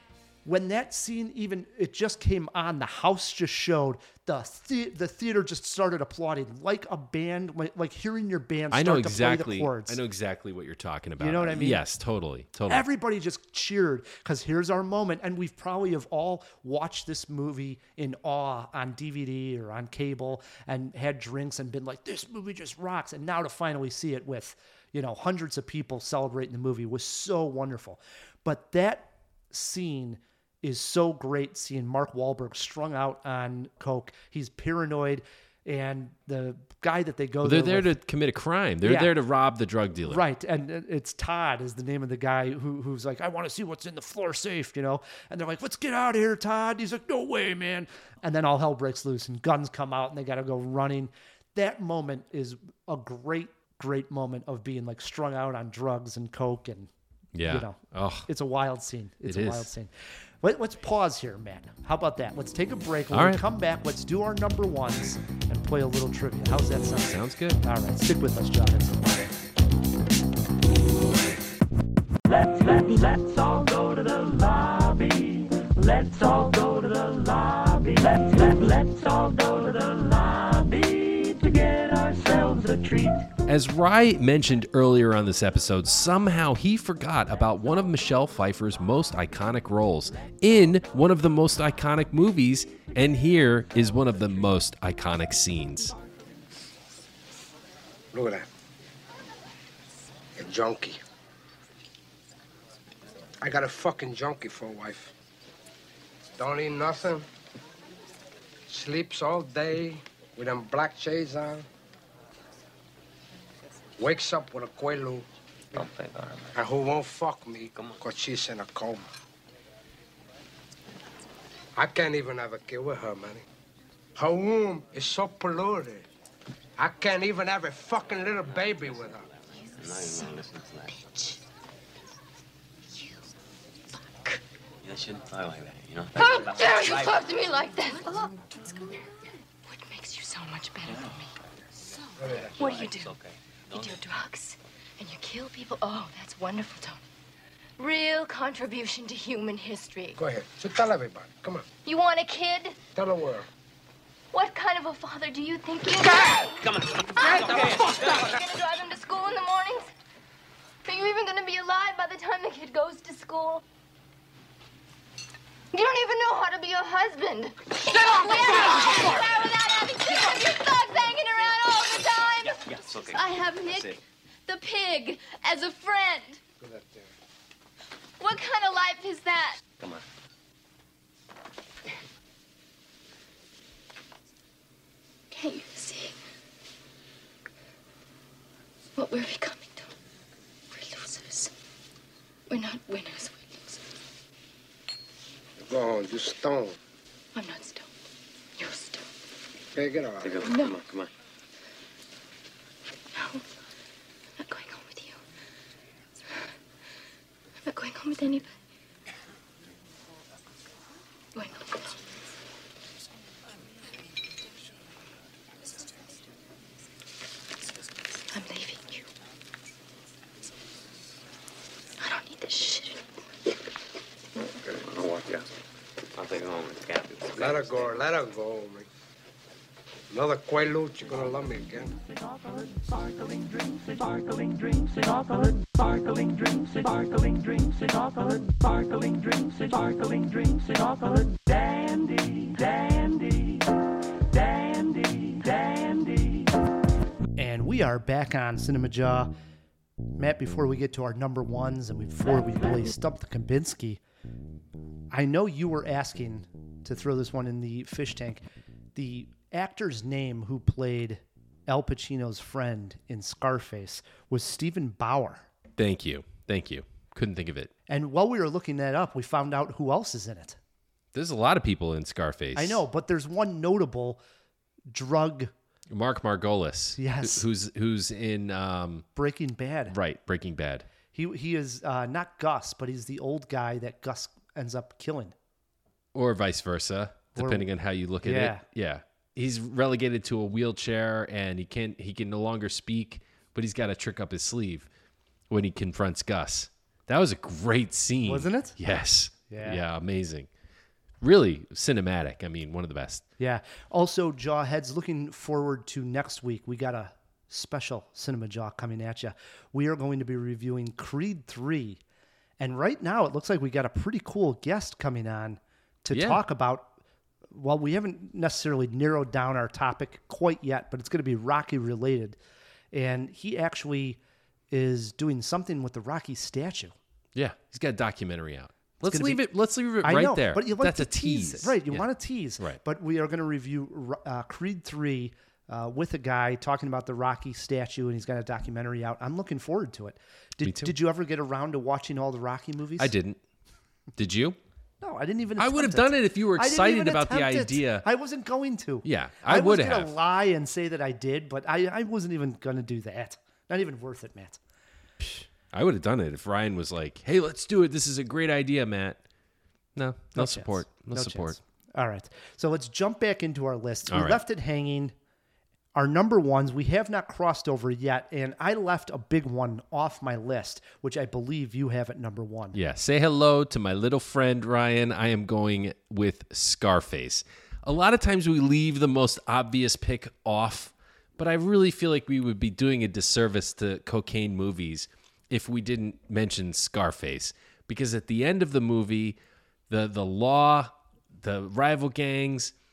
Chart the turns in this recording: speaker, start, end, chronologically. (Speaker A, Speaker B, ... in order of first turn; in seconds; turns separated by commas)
Speaker A: 0.5-10.0, Speaker B: 8.7-12.8, Speaker A: 11.2-11.8, Speaker A: 12.7-38.0, Speaker B: 37.4-40.2, Speaker A: 38.8-39.1, Speaker A: 40.0-56.9, Speaker B: 57.4-58.3, Speaker A: 57.5-69.3, Speaker B: 59.3-59.7, Speaker B: 63.1-63.4, Speaker B: 67.0-67.6, Speaker B: 83.5-96.0, Speaker C: 98.1-98.5, Speaker C: 100.4-101.0, Speaker C: 103.4-105.1, Speaker C: 106.4-107.3, Speaker C: 108.7-111.7, Speaker C: 114.0-115.3, Speaker D: 115.7-116.6, Speaker C: 116.5-119.1, Speaker D: 117.7-118.0, Speaker C: 121.8-123.5, Speaker C: 124.2-126.1, Speaker C: 126.8-129.3, Speaker D: 128.5-131.1, Speaker E: 130.1-130.3, Speaker E: 134.1-134.4, Speaker D: 134.8-137.3, Speaker E: 136.2-138.3, Speaker E: 139.7-141.3, Speaker D: 140.9-141.3, Speaker C: 142.2-142.5, Speaker D: 142.2-144.0, Speaker E: 142.6-143.1, Speaker E: 143.7-147.0, Speaker E: 147.8-150.2, Speaker C: 150.2-151.7, Speaker E: 151.8-152.8, Speaker C: 152.9-153.5, Speaker E: 154.3-159.9, Speaker D: 157.5-157.9, Speaker E: 160.8-163.6, Speaker E: 165.7-176.4, Speaker D: 172.4-174.0, Speaker C: 176.6-177.1, Speaker E: 178.2-179.6, Speaker D: 179.8-180.0, Speaker E: 185.3-186.2, Speaker E: 189.0-189.9, Speaker E: 190.7-191.5, Speaker E: 192.5-193.8, Speaker C: 195.7-196.8, Speaker E: 197.3-197.9, Speaker E: 198.6-199.1, Speaker C: 199.7-200.5, Speaker D: 200.2-201.1, Speaker E: 200.4-200.8, Speaker E: 203.1-203.4, Speaker E: 204.4-205.2, Speaker E: 207.6-208.5, Speaker E: 211.3-212.0, Speaker E: 218.3-219.1, Speaker E: 222.0-223.0, Speaker D: 224.6-225.5, Speaker D: 226.2-228.0, Speaker C: 227.3-228.9, Speaker C: 230.1-231.9, Speaker A: 247.4-249.3, Speaker A: 250.2-254.0, Speaker A: 255.1-258.4, Speaker A: 258.9-265.5, Speaker B: 265.8-267.7, Speaker A: 267.9-270.6, Speaker B: 271.1-272.8, Speaker A: 272.5-274.2, Speaker A: 274.9-275.5, Speaker B: 275.9-279.1, Speaker A: 277.0-277.4, Speaker A: 279.1-279.9, Speaker B: 279.9-280.9, Speaker A: 281.1-285.4, Speaker B: 286.1-294.9, Speaker A: 287.4-287.7, Speaker A: 288.2-288.6, Speaker B: 295.5-300.5, Speaker A: 298.2-298.8, Speaker A: 299.5-299.8, Speaker B: 301.2-303.2, Speaker A: 303.4-312.0, Speaker A: 312.6-317.0, Speaker B: 316.1-316.4, Speaker A: 317.5-322.4, Speaker A: 322.9-324.2, Speaker A: 324.7-326.9, Speaker B: 327.4-332.1, Speaker A: 329.0-329.5, Speaker A: 330.0-343.1, Speaker B: 340.6-340.9, Speaker B: 343.0-343.4, Speaker B: 344.2-344.6, Speaker A: 345.0-354.6, Speaker B: 345.6-348.1, Speaker B: 349.0-350.1, Speaker B: 355.2-359.2, Speaker B: 359.9-361.6, Speaker A: 360.4-365.1, Speaker B: 364.1-364.4, Speaker A: 365.9-372.8, Speaker B: 372.7-389.4, Speaker B: 389.9-392.7